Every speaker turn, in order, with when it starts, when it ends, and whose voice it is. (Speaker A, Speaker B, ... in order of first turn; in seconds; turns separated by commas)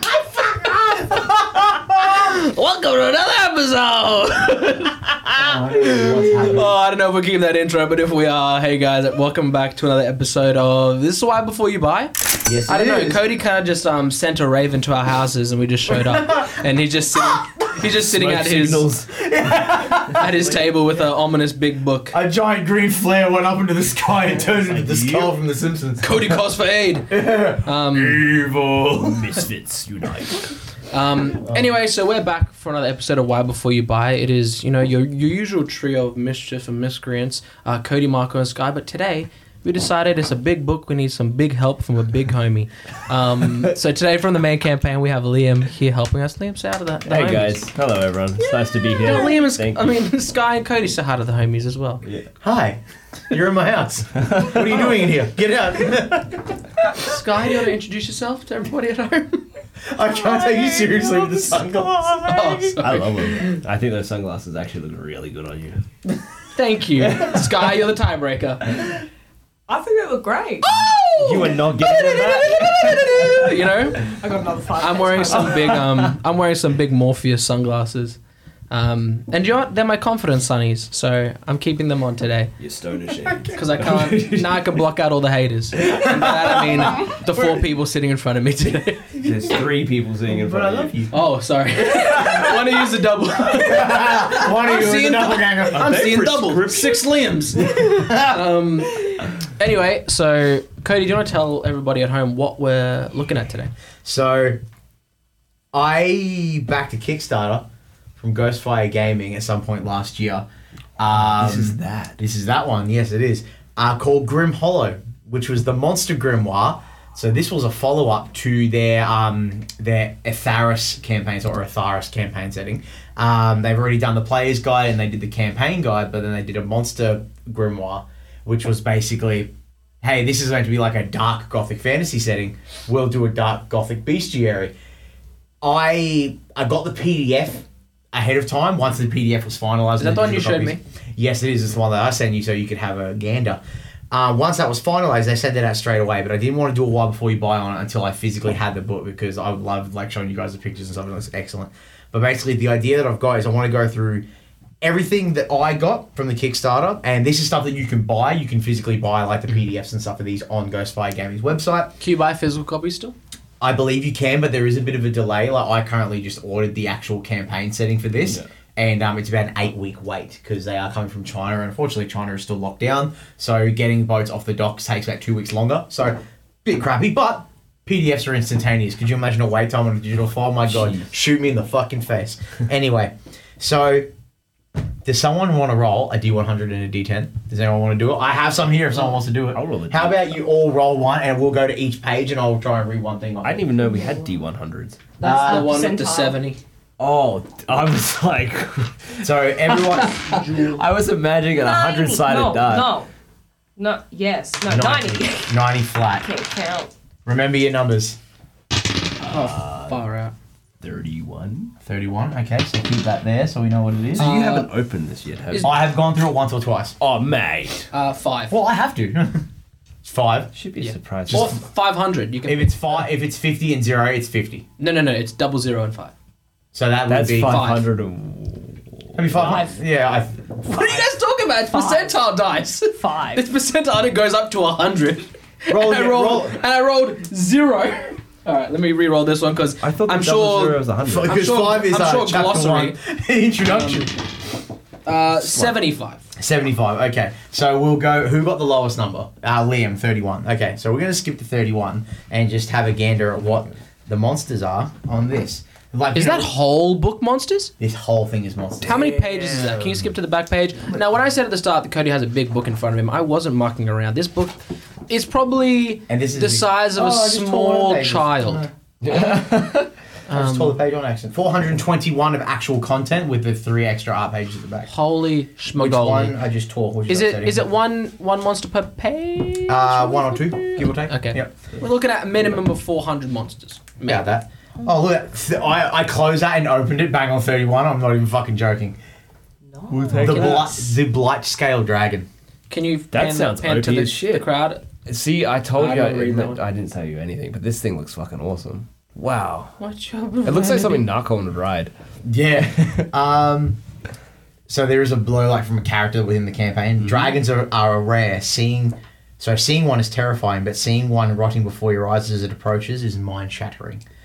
Speaker A: 0.5-1.3, Speaker A: 1.9-18.9, Speaker B: 5.3-6.7, Speaker B: 12.4-13.2, Speaker B: 16.0-16.6, Speaker C: 17.9-19.1, Speaker B: 19.1-20.5, Speaker A: 20.1-22.1, Speaker B: 22.1-26.4, Speaker C: 24.4-25.3, Speaker A: 26.0-28.2, Speaker B: 27.1-29.3, Speaker C: 29.0-30.5, Speaker A: 30.9-47.6, Speaker B: 31.4-31.7, Speaker C: 47.1-49.9, Speaker A: 48.4-52.0, Speaker C: 52.0-52.3, Speaker B: 52.4-57.1, Speaker C: 54.1-55.0, Speaker A: 57.0-59.4, Speaker B: 59.9-62.8, Speaker A: 60.4-61.2, Speaker A: 62.2-63.6, Speaker C: 62.8-65.8, Speaker A: 66.5-68.9, Speaker C: 67.0-67.5, Speaker D: 69.7-70.7, Speaker A: 71.1-71.5, Speaker C: 71.1-73.5, Speaker D: 71.8-75.8, Speaker A: 72.8-74.1, Speaker A: 74.8-78.2, Speaker C: 75.3-76.0, Speaker A: 78.7-82.5, Speaker C: 82.6-84.3, Speaker B: 83.2-84.5, Speaker A: 83.5-89.1, Speaker B: 85.8-87.5, Speaker B: 89.1-89.5, Speaker C: 89.2-91.0, Speaker B: 90.3-91.1, Speaker A: 91.1-103.7, Speaker B: 92.0-92.5, Speaker B: 93.5-96.2, Speaker C: 95.7-97.0, Speaker B: 97.6-98.4, Speaker B: 104.0-104.6, Speaker B: 105.7-107.7, Speaker B: 108.2-110.5, Speaker B: 111.0-129.5, Speaker C: 111.2-112.2, Speaker B: 130.0-134.7, Speaker B: 135.6-154.2, Speaker A: 140.0-140.8, Speaker B: 154.8-161.9, Speaker A: 162.0-163.1, Speaker B: 163.6-184.1, Speaker B: 185.0-193.7, Speaker C: 189.5-190.3, Speaker C: 193.4-195.0, Speaker D: 193.9-194.3, Speaker D: 195.2-196.4, Speaker B: 195.2-195.8, Speaker A: 195.2-196.6, Speaker C: 197.0-199.2, Speaker B: 199.2-200.4, Speaker C: 199.9-203.0, Speaker A: 199.9-200.8, Speaker D: 201.5-203.1, Speaker D: 203.8-206.9, Speaker B: 204.7-206.3, Speaker B: 207.2-208.2, Speaker A: 209.2-210.3, Speaker C: 209.3-210.0, Speaker C: 210.8-211.7, Speaker B: 211.8-214.3, Speaker C: 214.1-215.7, Speaker A: 214.2-214.7, Speaker B: 215.6-217.0, Speaker C: 217.0-217.9, Speaker A: 217.9-218.6, Speaker B: 218.5-219.4, Speaker B: 220.0-220.5, Speaker C: 220.5-221.6, Speaker A: 220.8-222.7, Speaker B: 221.3-221.5, Speaker B: 222.4-224.6, Speaker A: 224.8-226.1, Speaker B: 226.7-227.7, Speaker C: 227.1-229.6, Speaker A: 227.4-227.8, Speaker B: 229.1-230.5, Speaker D: 229.4-229.7, Speaker A: 230.7-242.9, Speaker D: 230.7-231.0, Speaker D: 231.7-232.1, Speaker D: 232.9-233.4, Speaker B: 235.7-236.6, Speaker C: 239.8-241.3, Speaker B: 241.0-244.1, Speaker A: 243.6-244.1, Speaker A: 245.1-246.2, Speaker C: 245.4-245.8, Speaker B: 246.4-256.5, Speaker A: 256.1-257.7, Speaker B: 257.8-259.1, Speaker A: 258.8-268.7, Speaker C: 259.3-259.8, Speaker B: 266.1-269.4, Speaker C: 269.0-269.9, Speaker A: 270.3-270.8, Speaker B: 270.3-274.9, Speaker A: 274.9-276.4, Speaker B: 275.7-277.6, Speaker A: 277.1-284.3, Speaker B: 279.7-281.5, Speaker B: 284.0-289.0, Speaker D: 289.7-290.4, Speaker C: 289.9-290.7, Speaker B: 290.1-292.3, Speaker A: 290.2-290.9, Speaker A: 292.7-294.8, Speaker C: 293.1-294.5, Speaker C: 295.0-299.7, Speaker A: 295.8-296.6, Speaker A: 299.8-301.1, Speaker C: 300.4-301.9, Speaker B: 302.2-303.8, Speaker B: 304.7-314.0, Speaker C: 307.0-307.3